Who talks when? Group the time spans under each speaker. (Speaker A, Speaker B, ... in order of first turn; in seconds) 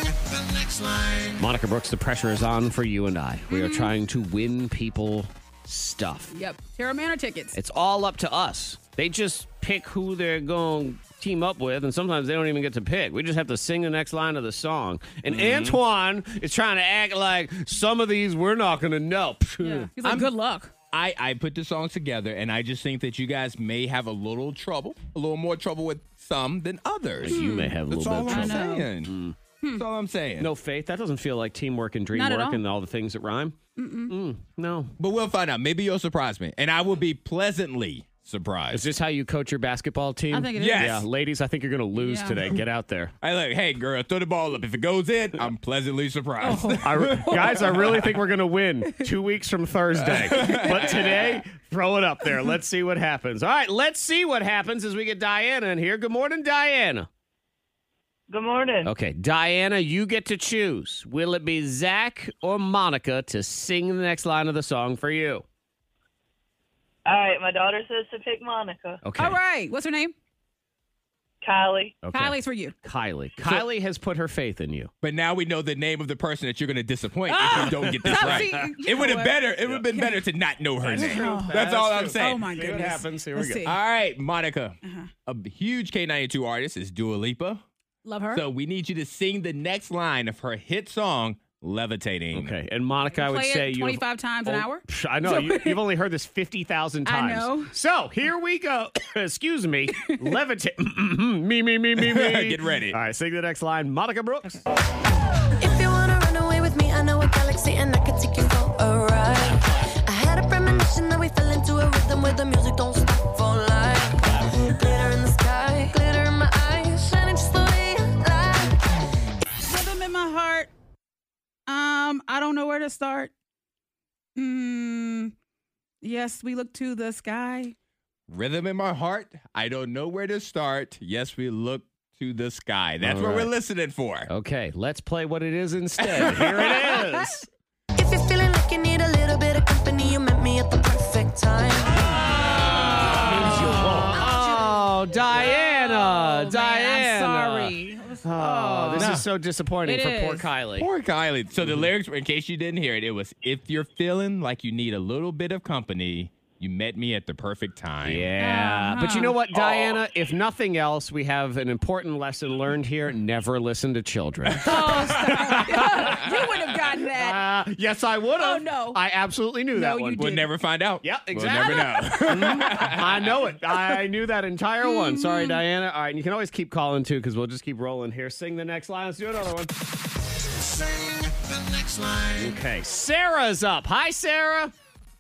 Speaker A: 1.4-6.3, 7.5-19.9, 27.2-29.4, 30.4-33.6, 34.1-34.9, 38.7-43.1, 46.8-57.1, 58.8-65.5, 69.0-69.4, 72.0-74.9, 77.5-78.8, 80.8-83.7, 92.3-104.6, 133.0-133.5, 134.3-137.4, 142.4-150.9, 158.0-166.3, 167.1-170.2, 171.0-179.7, 182.4-184.7
Speaker B: 3.5-3.9, 6.3-7.6, 19.6-20.7, 27.3-27.8, 28.3-28.9, 32.1-32.6, 33.8-34.1, 40.3-41.0, 42.0-42.4, 46.4-47.8, 69.2-70.1, 72.1-72.7, 77.3-80.2, 81.0-83.8, 84.8-85.1, 88.0-88.4, 93.1-95.8, 97.1-97.7, 119.6-120.7, 121.7-123.3, 124.4-125.3, 126.0-127.7, 143.1-149.1, 149.8-150.5, 158.4-159.4, 164.6-167.4, 168.4-169.0, 169.7-170.5, 174.8-175.6
Speaker C: 15.3-15.8, 20.0-20.3, 20.9-29.1, 29.7-30.5, 35.0-38.9, 40.6-41.1, 43.2-47.9, 50.0-51.4, 75.0-82.5, 83.6-87.6, 88.3-92.6, 102.0-103.0, 128.3-134.3, 136.0-137.0, 148.9-149.2, 150.8-158.3, 164.5-165.3, 170.2-173.5
Speaker D: 58.3-58.9, 67.1-69.0, 71.4-72.0
Speaker E: 105.6-118.8, 138.0-142.3, 143.4-144.0